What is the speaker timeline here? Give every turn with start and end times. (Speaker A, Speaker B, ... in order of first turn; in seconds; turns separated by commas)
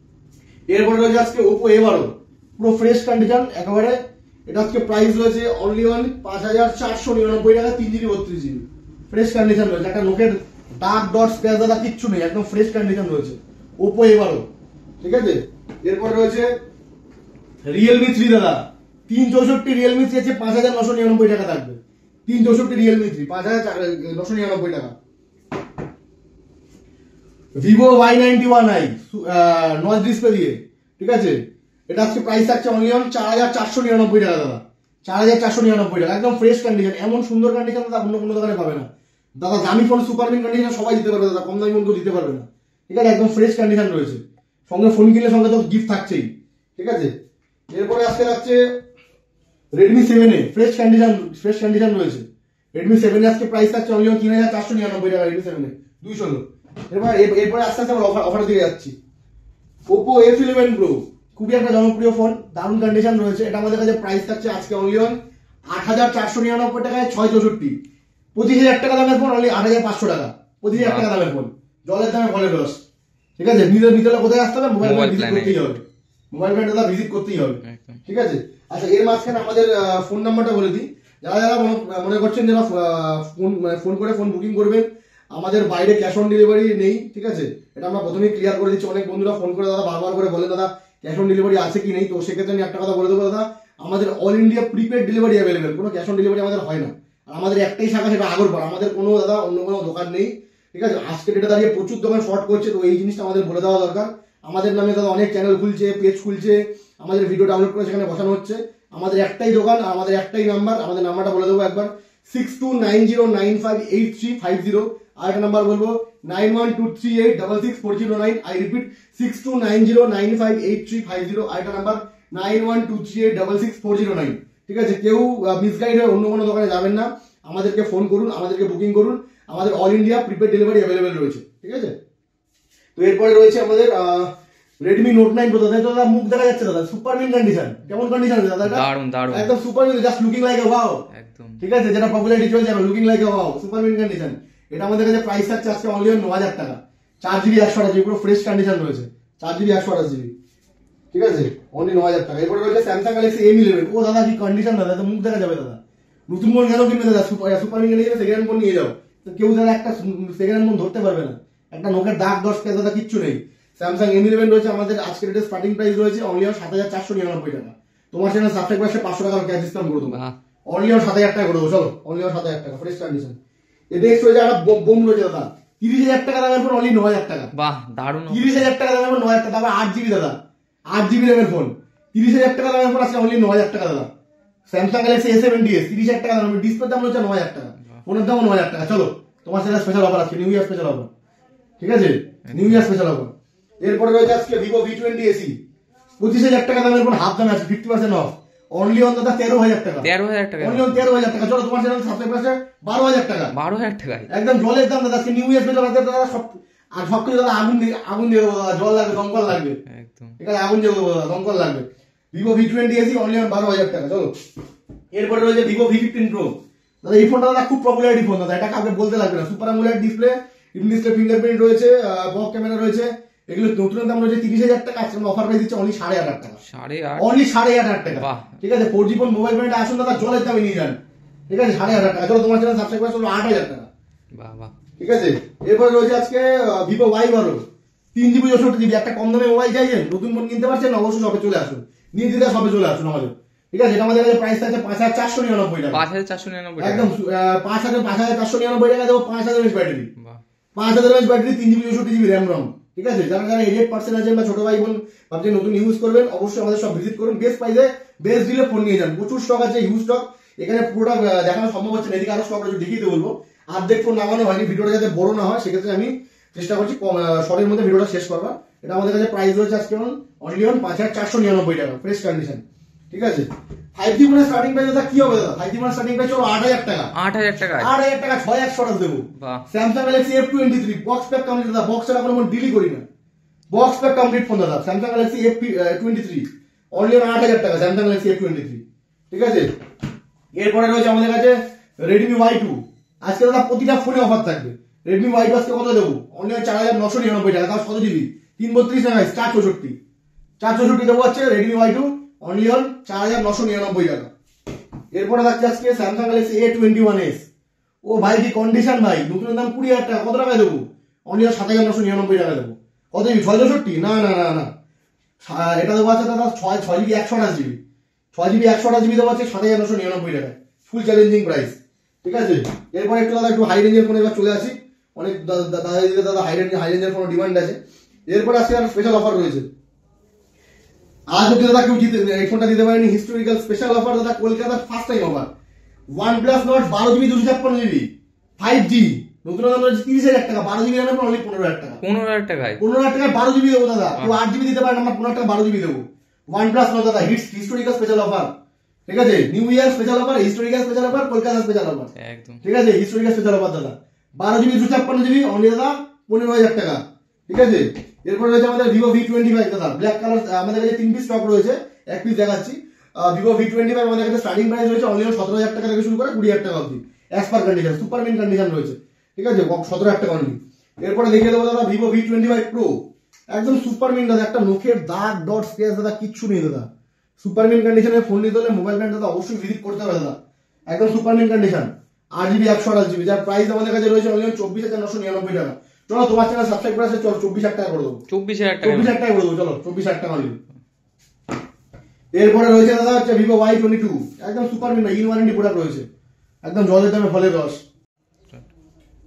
Speaker A: 0.7-14.4, Speaker A: 15.0-16.5, Speaker A: 17.6-24.9, Speaker A: 27.6-47.1, Speaker A: 47.7-48.6, Speaker A: 49.8-58.9, Speaker A: 59.9-65.2, Speaker A: 65.7-67.8, Speaker A: 68.3-72.8, Speaker B: 70.7-71.1, Speaker A: 73.4-131.9, Speaker B: 74.8-75.6, Speaker B: 77.6-78.0, Speaker A: 132.9-134.3, Speaker A: 134.8-141.0, Speaker B: 138.6-139.5, Speaker B: 141.1-141.6, Speaker A: 141.6-150.3, Speaker A: 151.1-155.8, Speaker A: 156.3-173.4, Speaker B: 170.0-170.3, Speaker A: 173.9-177.5, Speaker B: 177.5-178.7, Speaker A: 178.3-180.3, Speaker A: 180.9-184.1, Speaker A: 184.7-191.1, Speaker A: 191.8-195.6, Speaker B: 192.5-192.9, Speaker A: 196.2-200.1, Speaker B: 200.0-200.9, Speaker A: 200.6-203.5, Speaker B: 203.5-204.3, Speaker A: 204.3-209.8, Speaker B: 209.8-210.3, Speaker A: 210.4-214.3, Speaker A: 215.1-226.6, Speaker B: 226.6-227.3, Speaker A: 227.2-231.0, Speaker B: 228.1-228.6, Speaker A: 231.5-233.9, Speaker B: 234.4-234.7, Speaker A: 235.0-237.6, Speaker A: 238.1-246.0, Speaker B: 245.9-247.1, Speaker A: 246.8-250.1, Speaker A: 250.8-277.1, Speaker B: 277.1-277.9, Speaker A: 277.8-283.0, Speaker B: 279.4-279.6, Speaker A: 283.7-289.7, Speaker A: 290.6-299.9, Speaker A: 300.6-304.3, Speaker A: 305.1-307.4, Speaker A: 308.0-314.7, Speaker A: 315.4-317.8, Speaker A: 318.3-327.8, Speaker A: 328.3-329.7, Speaker A: 331.3-335.5, Speaker A: 336.2-342.0, Speaker B: 342.0-342.8, Speaker A: 342.8-348.5, Speaker A: 349.1-352.1, Speaker B: 352.1-352.6, Speaker A: 352.6-372.9, Speaker A: 373.5-376.9, Speaker A: 377.4-380.4, Speaker A: 380.9-388.2, Speaker B: 388.3-389.1, Speaker A: 388.8-390.6, Speaker A: 392.3-396.1, Speaker A: 396.6-397.8